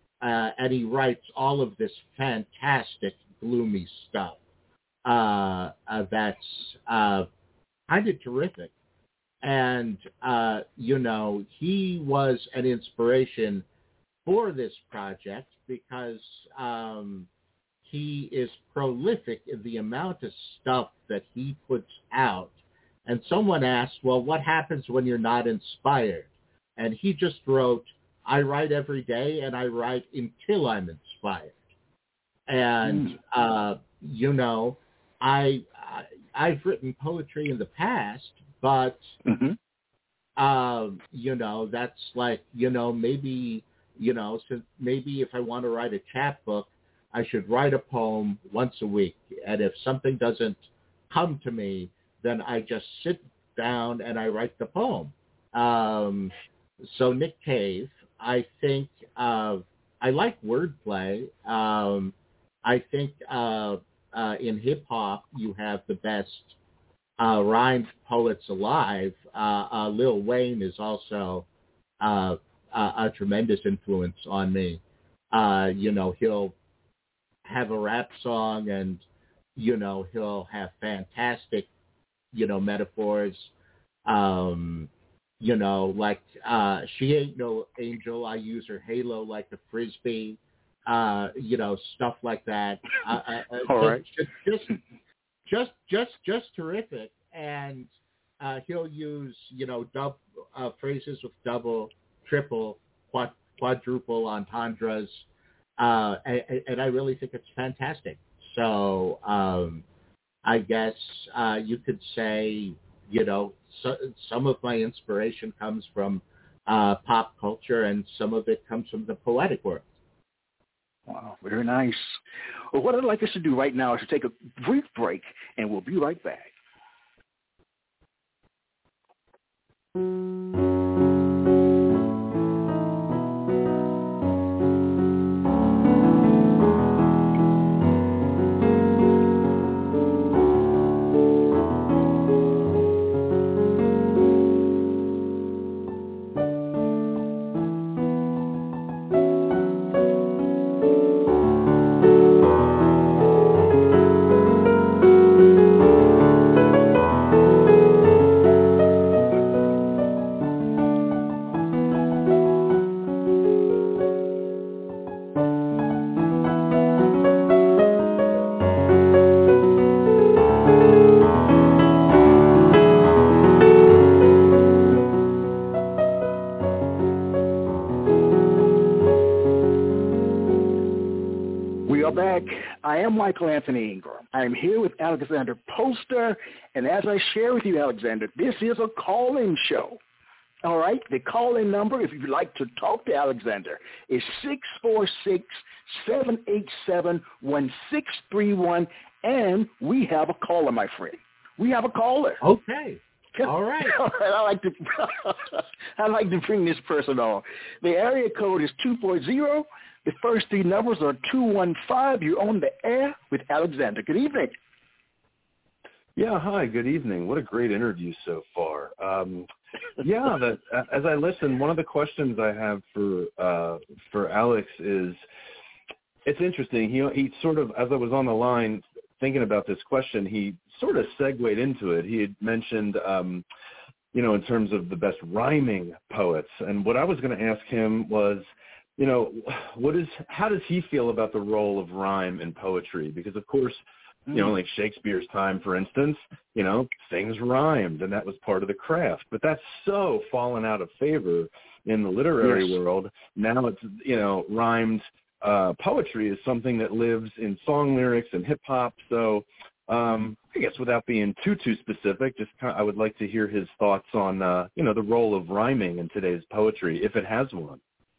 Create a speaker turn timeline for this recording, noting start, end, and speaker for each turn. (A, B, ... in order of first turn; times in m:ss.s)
0:00.2-0:04.4 A
0:05.0-0:07.3 A
0:07.9-0:08.7 A
0:09.4-0:13.6 A
0:14.2-0:17.3 A
0:17.8-0:22.5 A
0:23.0-0:31.6 A
0:32.5-0:39.2 A
0:32.8-0:33.2 B
0:39.2-0:39.6 B
0:40.4-1:06.6 A
1:07.2-1:11.5 A
1:12.0-1:14.8 A
1:15.3-1:16.5 A
1:17.4-1:19.0 A
1:19.6-1:21.7 A
1:22.3-1:23.5 A
1:24.0-1:24.9 A
1:25.4-1:34.7 A
1:33.6-1:34.0 B
1:35.4-1:45.2 A
1:45.8-1:49.8 A
1:50.4-1:59.8 A
2:01.1-2:02.2 B
2:02.7-2:06.5 B
3:01.9-3:10.0 B
3:10.6-3:22.4 B
3:22.4-3:24.0 A
3:23.4-3:34.5 B
3:36.2-3:39.5 C
3:40.0-3:45.2 C
3:46.2-3:53.4 C
3:54.1-4:27.8 C
4:12.4-4:12.7 B